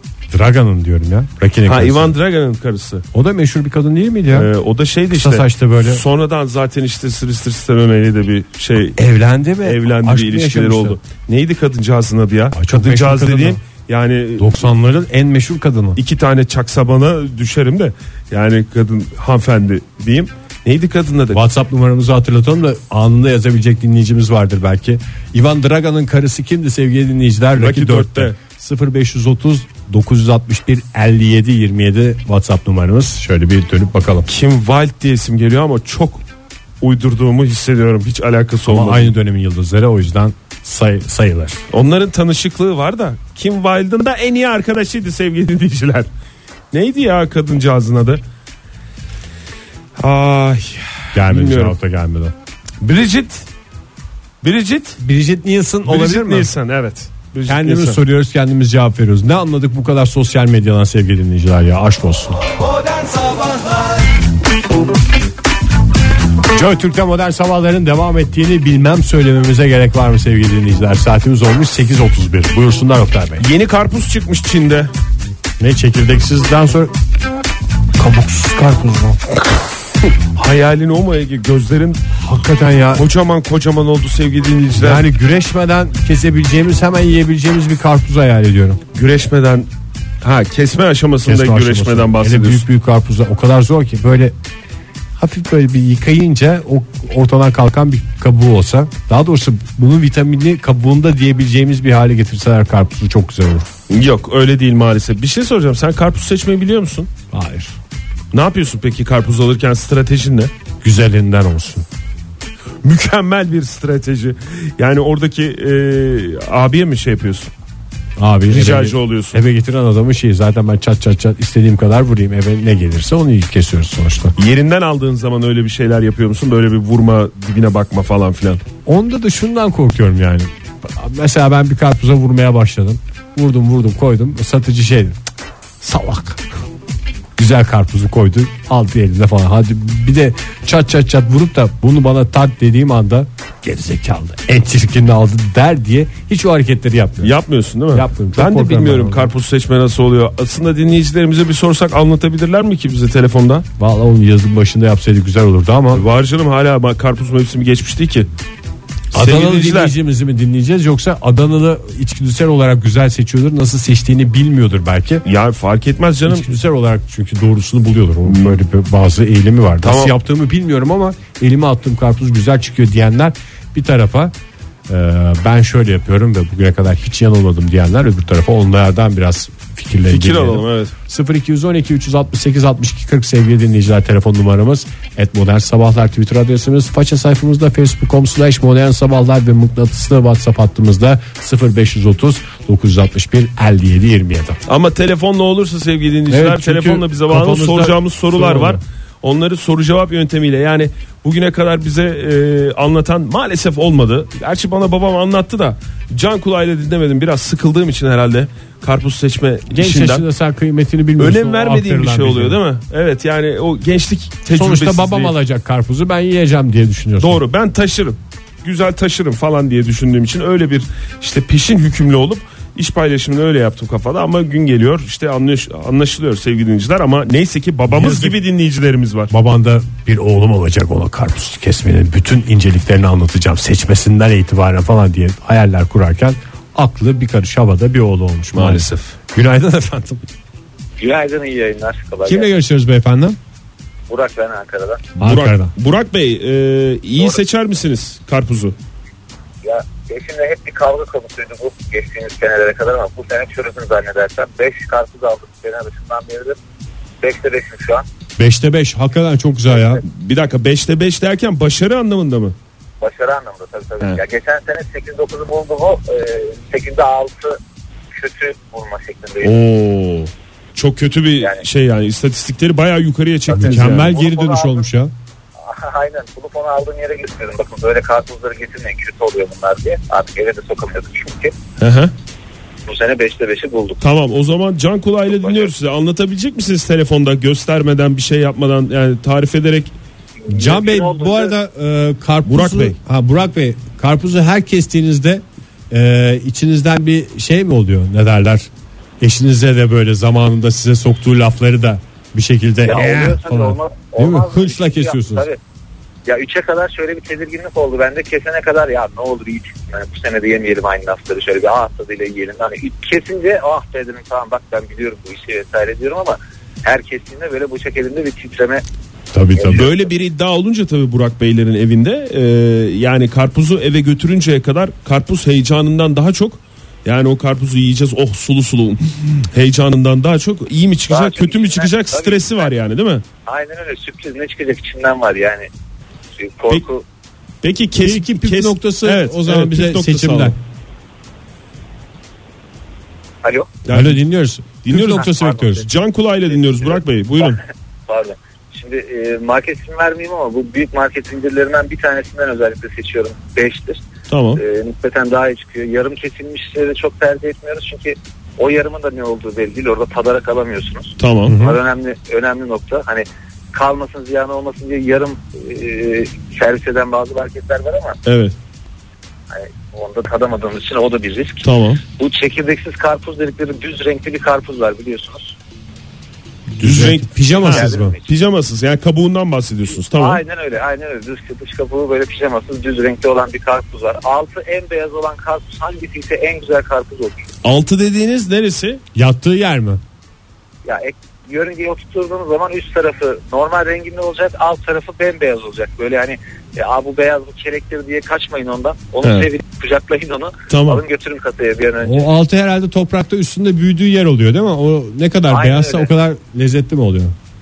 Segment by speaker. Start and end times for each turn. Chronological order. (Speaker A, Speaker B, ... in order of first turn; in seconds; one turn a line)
Speaker A: 0.3-2.1
Speaker B: 1.6-3.0
Speaker A: 3.1-4.5
Speaker B: 4.3-9.0
Speaker A: 5.1-6.0
Speaker A: 8.9-11.0
Speaker B: 9.6-14.6
Speaker A: 12.5-13.6
Speaker A: 14.4-16.0
Speaker B: 15.9-21.4
Speaker A: 21.3-34.3
Speaker B: 27.5-28.4
Speaker B: 34.2-36.2
Speaker B: 36.8-39.1
Speaker A: 38.7-41.6
Speaker B: 41.7-46.1
Speaker B: 46.7-48.2
Speaker B: 50.0-51.8
Speaker A: 51.1-52.3
Speaker B: 52.8-53.5
Speaker B: 54.4-55.0
Speaker A: 55.0-56.5
Speaker B: 55.8-58.0
Speaker A: 57.5-62.4
Speaker A: 66.5-73.4
Speaker B: 73.4-74.9
Speaker A: 75.6-76.9
Speaker A: 78.0-79.2
Speaker B: 80.3-82.1
Speaker A: 82.2-83.0
Speaker B: 82.9-85.1
Speaker A: 84.8-88.8
Speaker B: 88.9-89.7
Speaker B: 90.2-92.6
Speaker A: 91.2-94.3
Speaker A: 95.2-103.7
Speaker B: 103.9-107.1
Speaker A: 107.3-107.7
Speaker B: 108.3-110.5
Speaker A: 110.8-111.8
Speaker B: 112.8-117.5
Speaker A: 118.2-124.3
Speaker B: 118.5-119.4
Speaker B: 124.4-128.6
Speaker A: 128.8-135.2
Speaker A: 135.8-136.4
Speaker A: 137.4-147.3
Speaker B: 147.2-153.7
Speaker A: 147.9-149.3
Speaker A: 153.8-156.0
Speaker B: 155.9-158.3
Speaker B: 159.1-159.9
Speaker A: 159.1-165.2
Speaker B: 165.2-166.5
Speaker A: 166.2-174.3
Speaker B: 168.2-168.6
Speaker B: 169.8-170.1
Speaker A: 174.9-194.6
Speaker B: 180.1-180.9
Speaker B: 194.7-210.2
Speaker A: 196.3-198.8
Speaker A: 209.7-212.6
Speaker B: 211.2-215.3
Speaker A: 214.5-217.4
Speaker B: 217.2-229.3
Speaker A: 227.9-228.4
Speaker A: 229.3-240.2
Speaker B: 238.5-239.1
Speaker C: 241.0-242.5
Speaker A: 242.2-243.4
Speaker C: 244.1-245.1
Speaker A: 245.2-245.7
Speaker B: 245.2-248.7
Speaker C: 249.6-256.6
Speaker C: 257.2-258.0
Speaker A: 258.4-260.0
Speaker C: 259.7-260.0
Speaker B: 260.0-262.5
Speaker C: 263.0-267.6
Speaker C: 268.1-269.5
Speaker B: 269.4-274.1
Speaker A: 273.5-275.1
Speaker C: 273.6-274.8
Speaker C: 275.6-281.5
Speaker B: 281.8-282.1
Speaker C: 282.9-284.0
Speaker B: 284.0-289.9
Speaker C: 285.4-285.7
Speaker C: 290.4-291.5
Speaker A: 290.5-305.5
Speaker B: 292.4-292.9
Speaker C: 302.9-305.6
Speaker C: 306.2-318.8
Speaker A: 319.3-319.9
Speaker C: 319.6-319.9
Speaker B: 319.7-333.2
Speaker C: 331.1-332.7
Speaker C: 333.4-335.7
Speaker C: 336.4-337.0
Speaker B: 337.6-340.5
Speaker A: 338.0-340.6
Speaker C: 343.4-343.7
Speaker B: 343.8-344.2
Speaker A: 343.9-345.9
Speaker B: 344.8-347.6
Speaker C: 345.2-345.7
Speaker C: 348.1-354.0
Speaker B: 354.3-354.6
Speaker C: 354.6-368.2
Speaker B: 361.2-361.6
Speaker A: 361.5-361.8
Speaker B: 368.2-368.5
Speaker C: 369.5-375.6
Speaker B: 371.6-372.0
Speaker A: 376.8-378.1
Speaker B: 376.8-380.4
Speaker C: 377.6-378.2
Speaker C: 379.9-387.4
Speaker B: 387.6-389.0
Speaker A: 389.1-390.0
Speaker C: 390.8-402.3
Speaker B: 399.2-399.5
Speaker B: 400.7-401.0
Speaker A: 402.0-407.3
Speaker C: 405.5-406.1